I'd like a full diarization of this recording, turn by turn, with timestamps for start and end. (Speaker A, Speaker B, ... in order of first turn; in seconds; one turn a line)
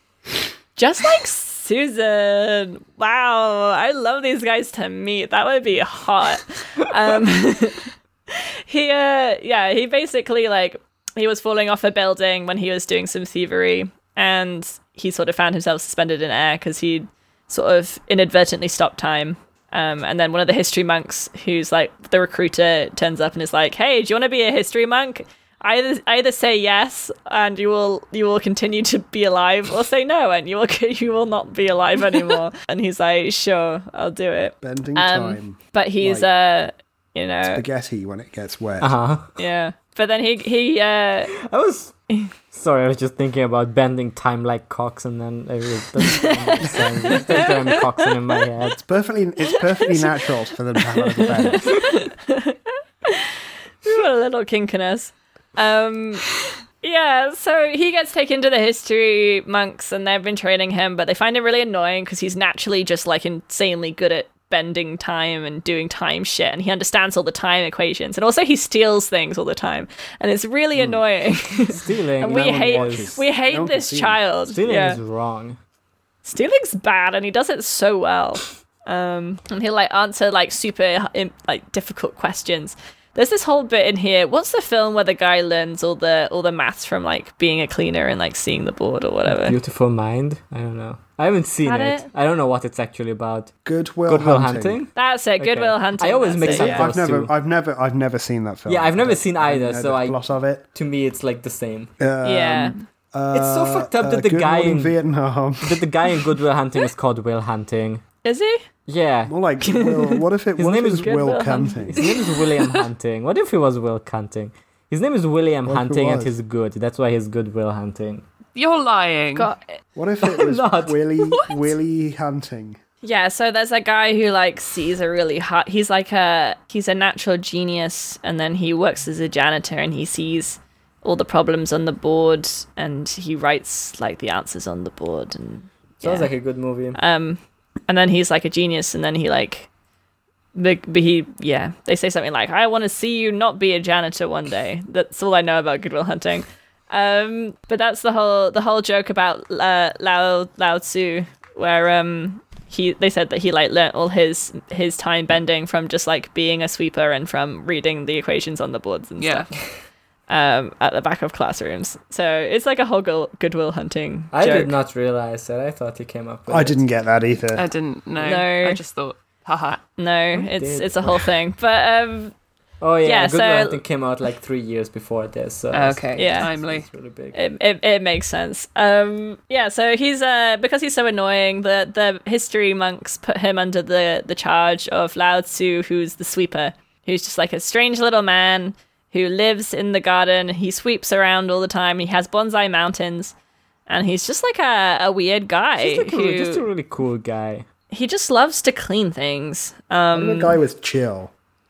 Speaker A: 0.8-37.6
Speaker B: 34.6-36.3
Speaker B: 37.5-38.9
Speaker C: 38.8-39.3
Speaker A: 39.4-41.3
Speaker C: 41.3-41.9
Speaker C: 42.5-48.8
Speaker A: 46.0-47.9
Speaker B: 48.8-51.8
Speaker A: 49.7-50.2
Speaker A: 51.0-56.3
Speaker A: 56.8-75.0
Speaker B: 70.8-71.0
Speaker C: 71.7-73.2
Speaker B: 72.3-74.2
Speaker C: 74.5-75.6
Speaker A: 76.2-89.6
Speaker C: 89.2-93.5
Speaker A: 91.6-92.1
Speaker B: 93.6-94.8
Speaker C: 94.1-97.3
Speaker A: 94.9-96.9
Speaker B: 96.5-100.7
Speaker C: 98.7-100.2
Speaker C: 100.7-101.9
Speaker B: 102.0-105.8
Speaker A: 102.2-102.8
Speaker C: 103.3-105.0
Speaker C: 105.6-108.0
Speaker A: 108.2-108.6
Speaker C: 108.9-109.3
Speaker B: 109.3-112.0
Speaker A: 109.6-110.2
Speaker C: 110.6-111.2
Speaker A: 111.0-112.4
Speaker C: 111.9-118.2
Speaker B: 115.7-116.3
Speaker D: 118.5-119.5
Speaker A: 119.3-119.6
Speaker B: 120.0-122.8
Speaker C: 120.2-121.0
Speaker A: 123.0-136.3
Speaker C: 136.0-137.0
Speaker A: 136.9-139.7
Speaker A: 140.5-159.5
Speaker D: 159.2-159.5
Speaker A: 160.3-164.8
Speaker C: 164.3-166.8
Speaker B: 166.5-167.7
Speaker D: 167.5-169.8
Speaker A: 168.2-168.8
Speaker A: 170.0-172.3
Speaker C: 170.3-171.3
Speaker C: 172.8-177.3
Speaker A: 173.0-173.8
Speaker D: 175.7-176.9
Speaker A: 176.2-176.5
Speaker A: 177.3-193.3
Speaker A: 193.9-196.6
Speaker C: 195.8-197.7
Speaker A: 197.9-200.6
Speaker B: 200.1-201.3